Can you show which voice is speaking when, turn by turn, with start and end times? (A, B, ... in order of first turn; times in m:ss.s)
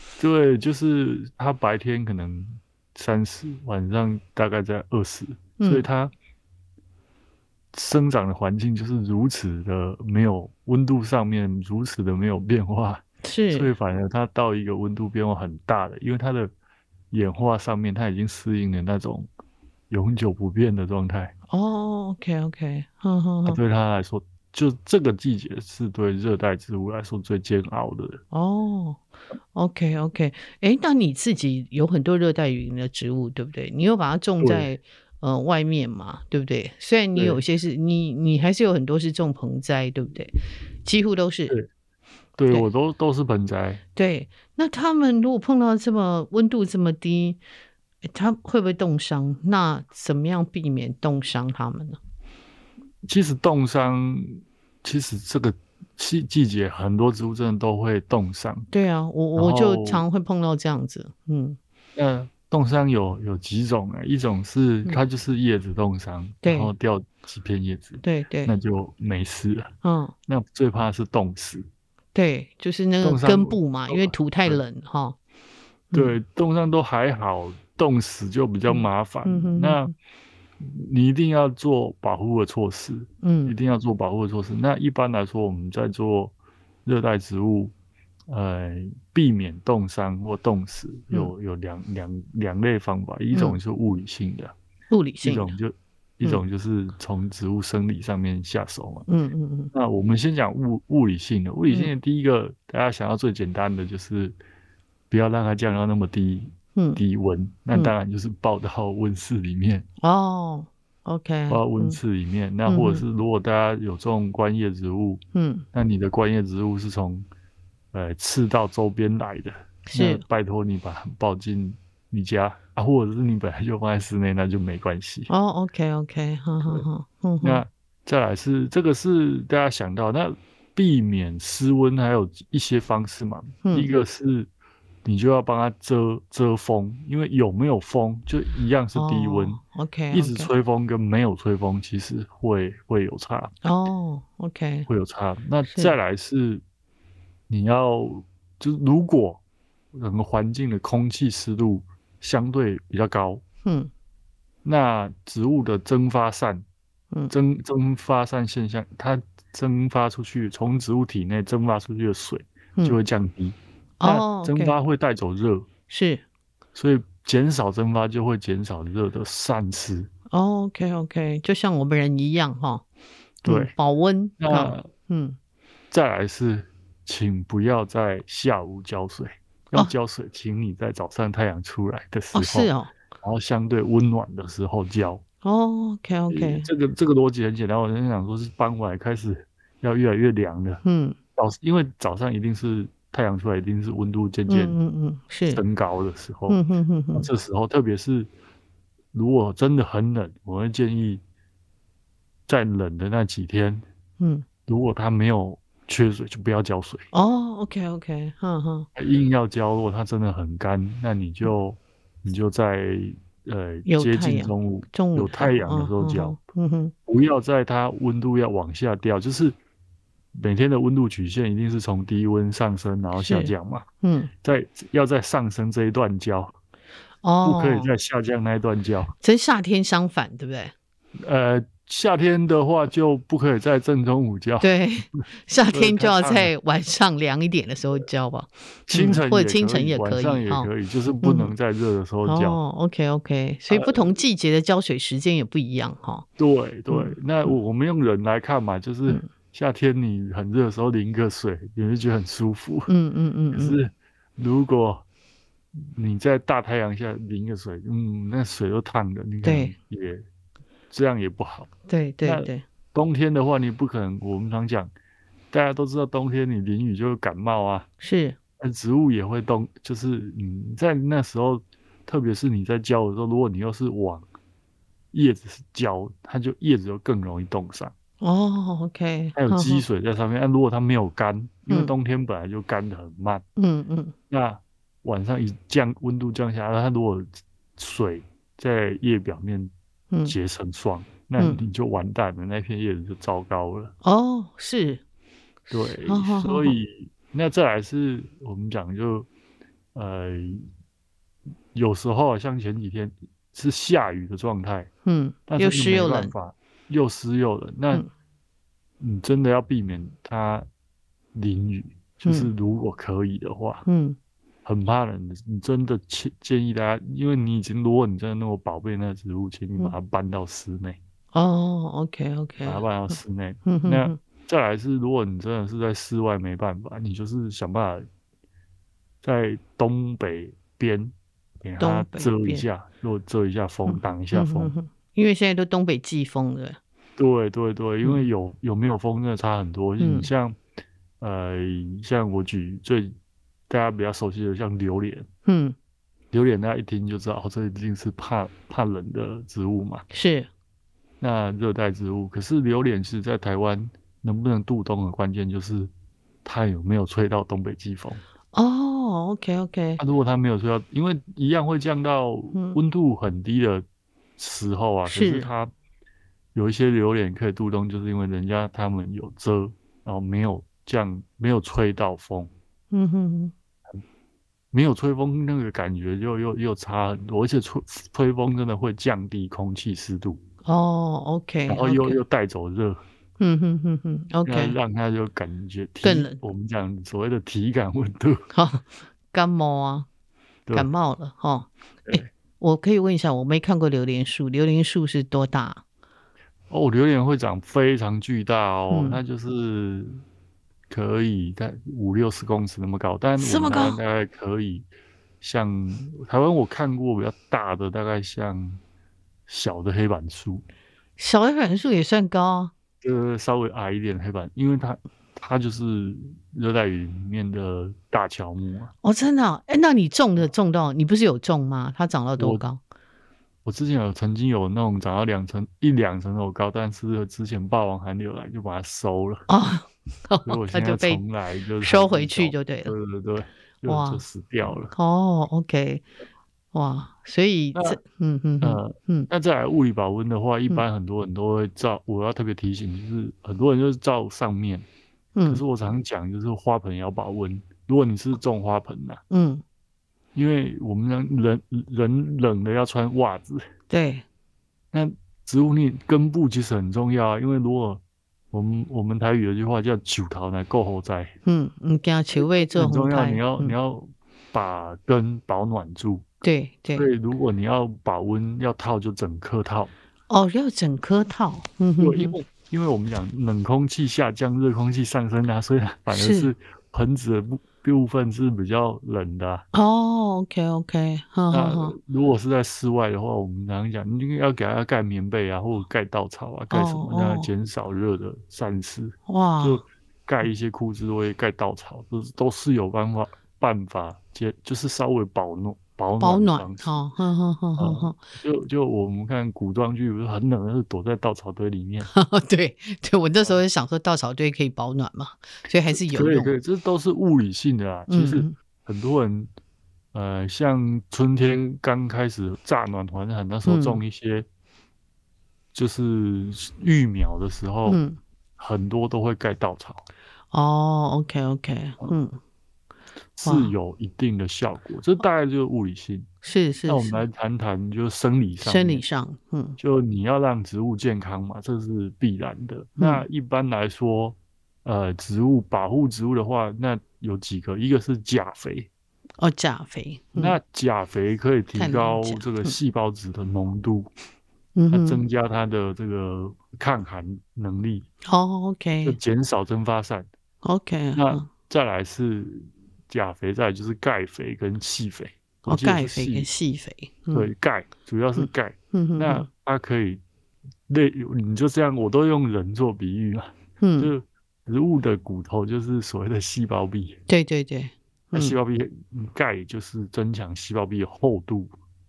0:00.2-0:06.1 A
0:05.6-0:05.9 B
0:07.7-0:16.5 A
0:13.2-0:13.7 B
0:17.1-0:19.3 A
0:19.9-0:21.3 A
0:21.5-0:23.6 B
0:23.5-0:28.2 A
0:28.3-0:29.0 B
0:29.5-0:41.5 B
0:34.4-0:34.7 A
0:42.4-0:43.8 A
0:44.0-0:47.4 B
0:48.1-0:52.0 B
0:53.0-0:58.7 A
0:58.7-1:01.6 B
0:59.3-1:00.0 A
1:02.0-1:09.7 A
1:06.4-1:06.7 B
1:08.0-1:08.5 B
1:09.8-1:10.1 B
1:10.3-1:11.7 A
1:12.1-1:15.2 B
1:13.0-1:14.6 A
1:15.9-1:16.2 B
1:15.9-1:19.9 A
1:18.7-1:19.9 B
1:20.6-1:26.3 A
1:23.2-1:23.6 B
1:26.8-1:27.7 A
1:28.3-1:34.5 A
1:33.3-1:33.6 B
1:34.9-1:35.6 B
1:35.2-1:39.1 A
1:39.1-1:39.7 B
1:39.7-1:44.4 A
1:45.1-1:49.8 A
1:46.8-1:47.0 B
1:50.0-1:52.0 B
1:51.5-1:55.2 A
1:52.6-1:53.0 B
1:55.3-1:55.6 B
1:55.7-1:57.2 A
1:57.9-2:05.3 A
1:59.9-2:00.2 B
2:05.3-2:07.6 B
2:07.4-2:14.5 A
2:13.6-2:13.9 B
2:15.0-2:19.6 A
2:19.0-2:20.5 B
2:20.1-2:23.5 A
2:23.6-2:24.9 B
2:24.9-2:26.6 A
2:27.5-2:29.4 A
2:29.9-2:33.4 A
2:33.6-2:33.9 B
2:34.6-2:36.6 A
2:37.3-2:45.7 A
2:44.0-2:44.8 B
2:45.9-2:46.2 B
2:46.7-2:50.1 A
2:50.3-2:52.8 B
2:53.4-2:53.7 A
2:53.4-2:55.4 B
2:54.4-2:54.9 A
2:55.9-3:05.2 A
3:02.3-3:02.9 B
3:05.4-3:06.7 B
3:06.3-3:10.8 A
3:10.8-3:11.2 B
3:11.4-3:14.8 A
3:14.5-3:15.6 B
3:15.5-3:16.6 A
3:16.5-3:17.3 B
3:17.1-3:18.3 A
3:19.1-3:21.2 A
3:22.5-3:23.8 A
3:24.2-3:24.4 B
3:24.6-3:27.0 A
3:27.1-3:28.9 B
3:29.0-3:36.4 A
3:33.8-3:36.9 B
3:37.1-3:39.6 A
3:40.3-3:43.8 A
3:43.2-3:44.3 B
3:44.4-3:46.5 A
3:47.2-3:47.9 B
3:47.4-3:49.1 A
3:49.2-3:50.7 B
3:51.2-3:56.5 A
3:54.6-4:00.7 B
3:58.9-4:02.6 A
4:01.2-4:01.5 B
4:02.2-4:06.2 B
4:03.7-4:04.1 A
4:06.4-4:12.9 A
4:06.9-4:07.1 B
4:12.9-4:13.8 B
4:13.5-4:15.0 A
4:15.9-4:20.2 A
4:19.4-4:19.7 B
4:20.9-4:21.7 A
4:21.9-4:22.6 B
4:22.2-4:24.9 A
4:25.5-4:27.9 A
4:28.0-4:28.4 B
4:28.6-4:34.2 A
4:35.1-4:37.9 A
4:38.2-4:39.8 B
4:39.3-4:43.4 A
4:43.6-4:44.1 B
4:44.3-4:49.7 A
4:50.1-4:50.4 B
4:50.2-4:53.9 A
4:51.4-4:51.6 B
4:54.0-4:55.0 B
4:55.7-4:56.8 B
4:55.7-4:59.3 A
4:59.9-5:00.7 A
5:01.7-5:04.9 A
5:05.0-5:06.3 B
5:05.5-5:08.0 A
5:09.0-5:10.7 A
5:11.3-5:13.8 A
5:12.2-5:12.5 B
5:13.9-5:14.2 B
5:14.6-5:21.0 A
5:21.3-5:23.1 B
5:22.6-5:28.0 A
5:23.6-5:24.2 B
5:29.2-5:34.7 A
5:31.8-5:32.6 B
5:33.9-5:36.8 B
5:37.2-5:40.6 A
5:40.0-5:40.3 B
5:41.2-5:43.1 A
5:43.7-5:45.3 A
5:45.4-5:45.7 B
5:46.3-5:50.0 A
5:50.1-5:50.5 B
5:51.2-5:55.9 A
5:56.4-5:58.2 A
5:58.5-6:00.0 B
6:00.0-6:03.8 A
6:04.4-6:05.7 A
6:05.1-6:05.5 B
6:06.5-6:12.5 A
6:12.9-6:13.5 B
6:14.7-6:20.4 A
6:20.6-6:22.2 B
6:21.7-6:23.0 A
6:23.4-6:24.8 B
6:24.4-6:28.4 A
6:26.0-6:26.4 B
6:28.5-6:30.1 B
6:30.7-6:35.8 B
6:36.7-6:40.2 A
6:38.9-6:39.2 B
6:40.9-6:44.9 A
6:43.4-6:44.0 B
6:45.4-6:48.8 A
6:49.5-6:50.6 A
6:51.2-6:52.7 B
6:53.0-6:58.9 A
6:59.0-7:02.8 B
7:02.4-7:02.6 A
7:03.6-7:09.5 A
7:09.5-7:11.2 B
7:10.4-7:14.9 A
7:11.8-7:12.9 B
7:13.9-7:14.2 B
7:14.9-7:16.0 B
7:16.7-7:19.3 B
7:17.7-7:18.0 A
7:18.6-7:24.8 A
7:25.4-7:25.6 B
7:25.5-7:29.2 A
7:29.3-7:29.6 B
7:30.3-7:33.6 A
7:33.9-7:34.2 B
7:34.9-7:41.4 A
7:41.4-7:43.7 B
7:42.3-7:46.2 A
7:46.4-7:47.1 B
7:46.9-7:49.9 A
7:50.3-7:52.3 B
7:52.0-7:59.6 A
7:56.1-7:56.5 B
7:59.7-8:02.0 B
8:01.5-8:16.9 A
8:06.7-8:07.5 B
8:09.3-8:09.8 B
8:16.2-8:18.2 B
8:17.8-8:22.1 A
8:22.1-8:26.5 B
8:25.9-8:29.5 A
8:28.1-8:28.5 B
8:30.1-8:34.4 A
8:33.6-8:34.0 B
8:35.7-8:38.0 A
8:37.9-8:38.2 B
8:38.6-8:40.0 A
8:40.5-8:42.4 B
8:43.4-8:46.3 A
8:43.4-8:43.7 B
8:46.4-8:47.2 B
8:46.9-8:49.0 A
8:48.6-8:49.8 B
8:49.8-8:58.9 A
8:53.0-8:53.2 B
8:59.4-9:00.6 B
9:00.4-9:04.1 A
9:01.8-9:02.8 B
9:04.7-9:05.2 B
9:04.9-9:08.1 A
9:08.2-9:09.2 B
9:09.0-9:10.3 A
9:10.6-9:11.5 B
9:11.1-9:16.5 A
9:15.6-9:17.5 B
9:17.3-9:20.2 A
9:18.4-9:19.5 B
9:20.9-9:27.2 A
9:23.8-9:24.1 B
9:27.3-9:28.6 B
9:28.3-9:31.7 A